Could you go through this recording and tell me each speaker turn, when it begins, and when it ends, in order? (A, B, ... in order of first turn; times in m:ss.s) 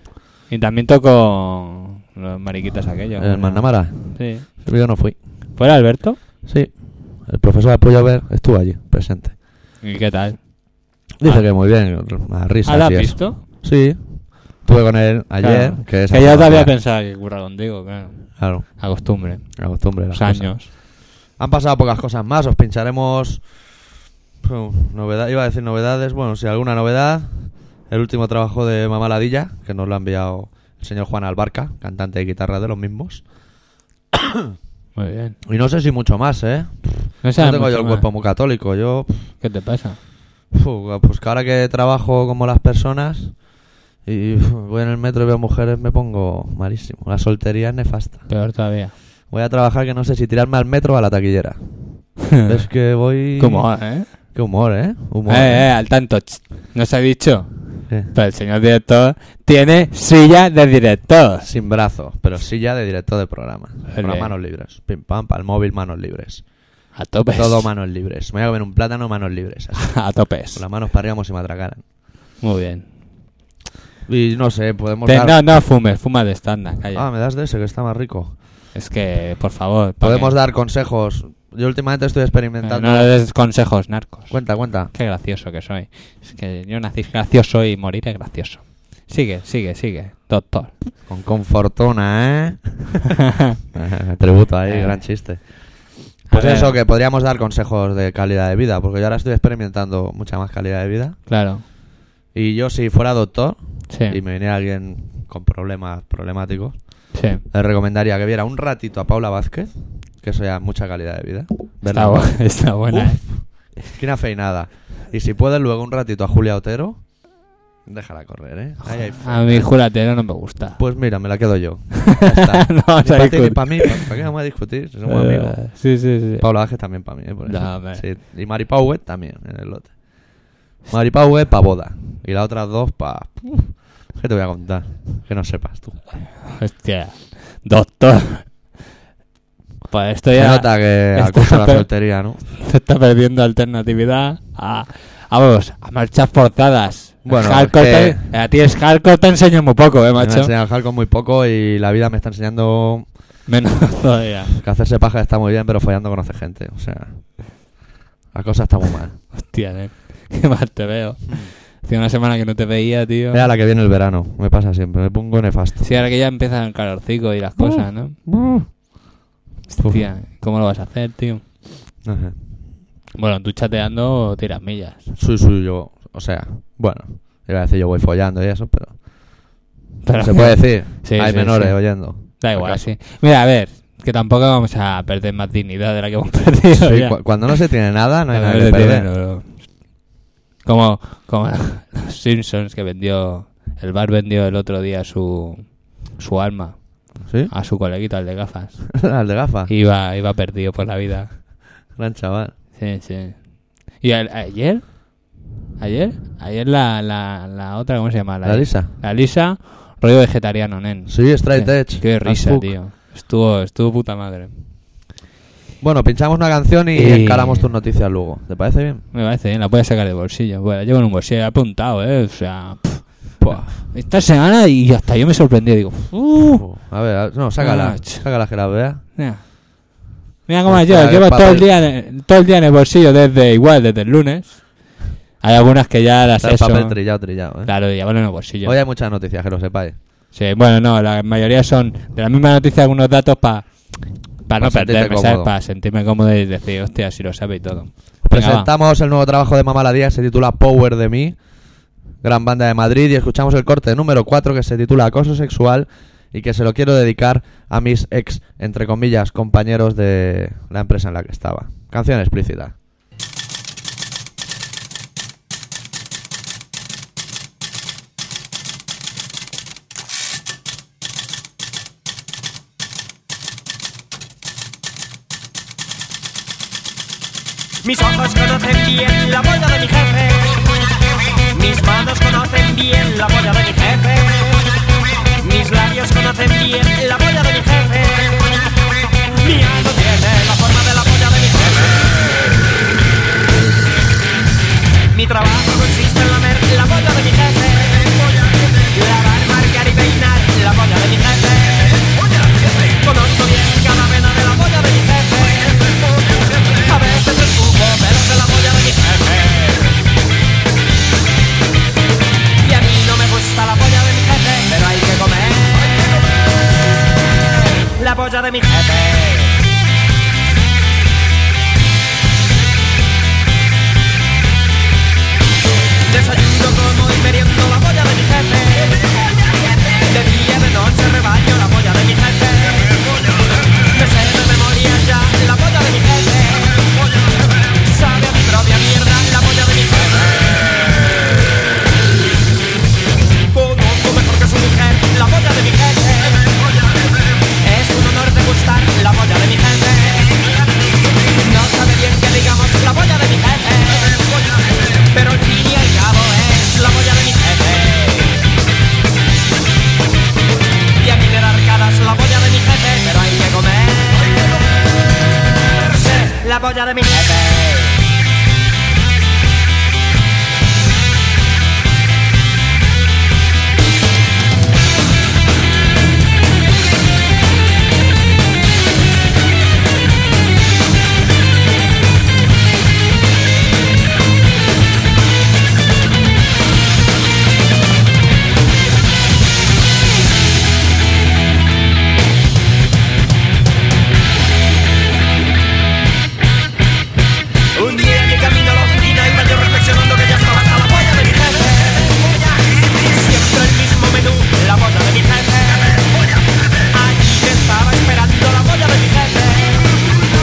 0:00.5-0:04.5 A
0:03.2-0:05.2 B
0:05.6-0:06.2 A
0:06.4-0:09.4 B
0:09.8-0:10.5 A
0:11.2-0:16.7 B
0:11.2-0:11.5 A
0:12.6-0:13.4 A
0:15.4-0:20.7 A
0:18.4-0:20.8 B
0:21.3-0:23.6 B
0:24.4-0:33.2 B
0:35.0-0:35.4 A
0:35.4-0:39.3 B
0:37.2-0:38.1 A
0:39.4-0:40.0 A
0:40.5-0:43.4 B
0:44.0-0:48.3 B
0:48.3-0:48.9 A
0:49.3-0:53.7 B
0:52.3-0:52.6 A
0:53.4-0:54.1 A
0:54.3-0:55.7 B
0:55.3-1:01.5 A
1:01.4-1:06.4 B
1:03.9-1:04.3 A
1:06.9-1:07.7 A
1:07.3-1:11.8 B
1:09.8-1:10.6 A
1:12.4-1:12.9 A
1:14.1-1:15.4 B
1:15.0-1:17.1 A
1:16.9-1:18.4 B
1:18.7-1:20.4 A
1:20.0-1:23.1 B
1:22.6-1:30.8 A
1:24.3-1:24.9 B
1:31.1-1:32.8 B
1:33.7-1:41.2 B
1:34.7-1:35.0 A
1:36.3-1:36.8 A
1:41.3-1:41.6 A
1:42.3-1:57.1 B
1:43.9-1:44.2 A
1:47.1-1:47.4 A
1:51.9-1:53.2 A
1:57.8-1:59.7 B
1:58.8-2:00.8 A
2:00.8-2:05.8 B
2:02.2-2:04.0 A
2:05.1-2:06.4 A
2:06.3-2:10.0 B
2:07.4-2:08.0 A
2:10.9-2:16.0 B
2:16.5-2:18.5 A
2:19.9-2:21.9 A
2:20.3-2:22.4 B
2:22.6-2:30.5 A
2:27.2-2:28.3 B
2:30.2-2:33.1 B
2:33.5-2:34.6 A
2:34.6-2:37.6 B
2:38.3-2:39.2 B
2:39.3-2:43.5 A
2:43.3-2:45.9 B
2:45.8-2:48.2 A
2:47.6-2:48.7 B
2:49.7-2:50.0 B
2:49.8-2:51.5 A
2:52.0-2:52.4 B
2:53.2-2:55.1 A
2:55.1-2:59.1 B
3:00.0-3:07.6 A
3:00.2-3:02.8 B
3:06.7-3:09.1 B
3:08.3-3:09.9 A
3:10.6-3:19.0 A
3:17.2-3:17.5 B
3:19.0-3:19.7 B
3:19.7-3:21.4 A
3:21.9-3:22.5 B
3:22.7-3:34.5 A
3:28.4-3:28.9 B
3:31.1-3:32.7 B
3:35.8-3:39.0 B
3:36.9-3:37.7 A
3:39.1-3:46.7 A
3:43.4-3:43.7 B
3:46.3-3:49.0 B
3:47.6-3:48.6 A
3:49.2-3:58.8 A
3:50.7-3:51.7 B
3:56.4-3:57.8 B
3:58.6-4:00.0 B
4:00.3-4:08.7 A
4:04.6-4:05.5 B
4:08.2-4:11.4 B
4:12.2-4:22.7 B
4:37.8-4:40.6 C
4:41.5-4:44.7 C
4:45.4-4:48.6 C
4:49.3-4:52.6 C
4:55.1-5:10.0 C
5:12.6-5:16.2 C
5:17.9-5:19.6 C
5:26.1-5:29.2 C
5:29.9-5:41.6 C
5:43.5-5:46.9 C
5:47.5-5:50.6 C
5:51.2-5:58.5 C
6:01.0-6:04.6 C
6:05.7-6:08.1 C
6:37.7-6:50.1 C